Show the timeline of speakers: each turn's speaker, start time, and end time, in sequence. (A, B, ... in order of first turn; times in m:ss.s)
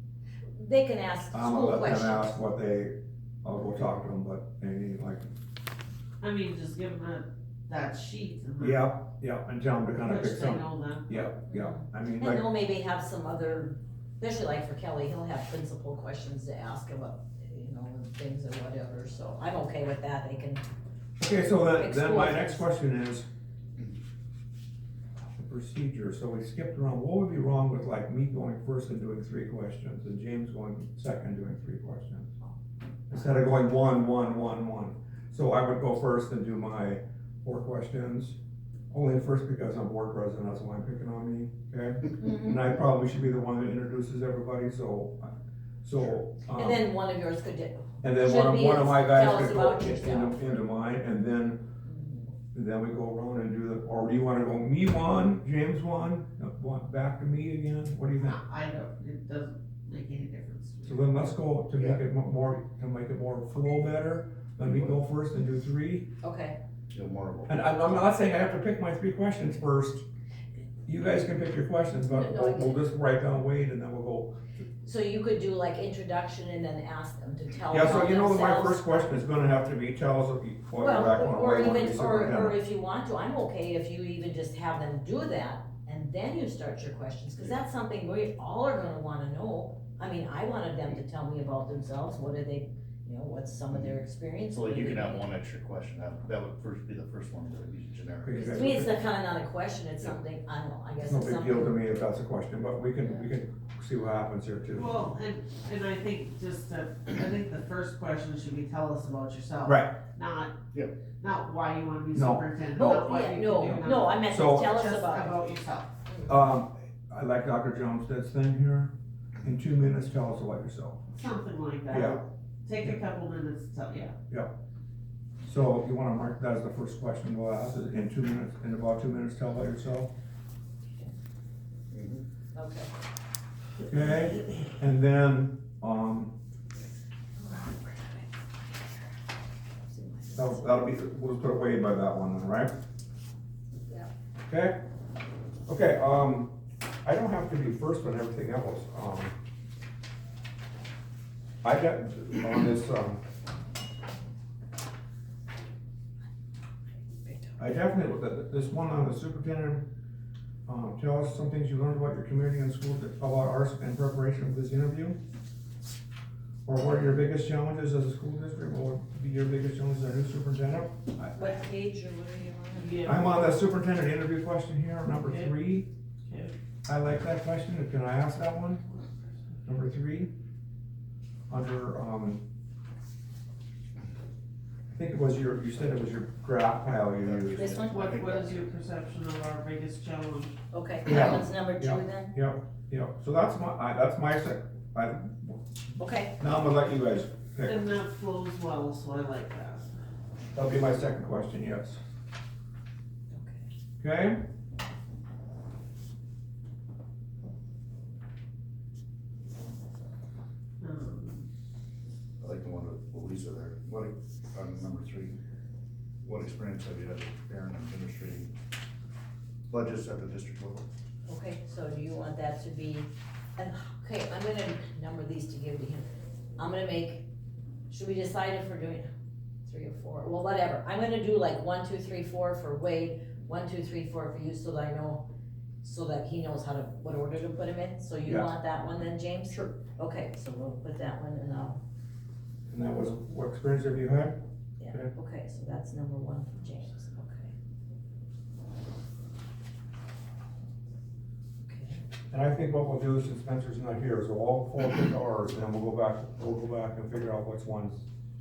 0:00.5-0:02.4 A
0:01.3-0:05.3 B
0:06.2-0:08.9 C
0:08.6-0:12.4 B
0:10.0-0:11.3 C
0:11.5-0:20.6 A
0:21.2-0:23.3 B
0:21.5-0:22.6 A
0:25.4-0:32.3 B
0:33.1-0:38.4 B
0:38.9-0:46.8 B
0:42.2-0:42.5 A
0:46.5-0:50.4 A
0:48.0-0:51.6 B
0:51.8-0:52.3 A
0:52.5-0:58.4 B
0:58.2-1:01.2 C
1:00.8-1:06.1 B
1:01.8-1:02.0 D
1:04.6-1:05.0 D
1:06.2-1:06.6 A
1:06.9-1:07.8 D
1:07.5-1:10.0 B
1:10.8-1:14.4 B
1:12.0-1:12.8 A
1:14.8-1:19.0 A
1:17.7-1:22.6 B
1:20.8-1:35.3 A
1:34.5-1:38.7 D
1:38.2-1:38.9 B
1:38.4-1:41.8 A
1:41.0-1:44.9 B
1:44.7-1:50.6 C
1:49.6-1:50.0 B
1:51.2-1:56.0 C
1:52.1-1:52.4 B
1:52.8-1:55.3 A
1:53.7-1:54.8 B
1:56.2-2:01.0 B
2:01.1-2:04.1 C
2:01.9-2:02.2 B
2:05.4-2:10.1 B
2:11.9-2:12.2 D
2:12.5-2:12.9 A
2:13.9-2:16.3 B
2:17.4-2:18.3 A
2:19.9-2:20.8 A
2:20.3-2:22.7 B
2:24.5-2:24.8 B
2:25.7-2:29.3 B
2:31.6-2:33.2 B
2:37.1-2:37.5 A
2:37.6-2:39.9 B
2:40.6-2:45.2 B
2:46.6-2:51.6 B
2:51.3-2:53.2 A
2:52.8-2:53.3 C
2:53.0-2:55.9 B
2:55.2-2:55.5 C
2:56.2-2:56.5 C
2:56.8-2:58.8 B
2:59.6-3:00.3 B
3:01.5-3:02.4 B
3:04.9-3:07.7 B
3:07.2-3:08.7 D
3:07.6-3:08.1 A
3:07.9-3:10.6 C
3:10.7-3:12.4 A
3:11.0-3:15.6 B
3:16.0-3:16.4 A
3:16.4-3:17.8 B
3:17.6-3:19.9 C
3:20.5-3:22.0 B
3:23.3-3:23.7 A
3:24.0-3:24.4 B
3:30.8-3:31.5 C
3:32.4-3:35.4 D
3:36.2-3:38.5 D
3:39.7-3:40.9 D
3:41.3-3:46.0 A
3:46.6-3:47.3 A
3:47.9-3:49.1 A
3:49.6-3:55.3 A
3:55.8-4:01.8 A
4:02.7-4:04.4 B
4:04.8-4:07.5 A
4:11.6-4:12.0 A
4:12.3-4:18.0 B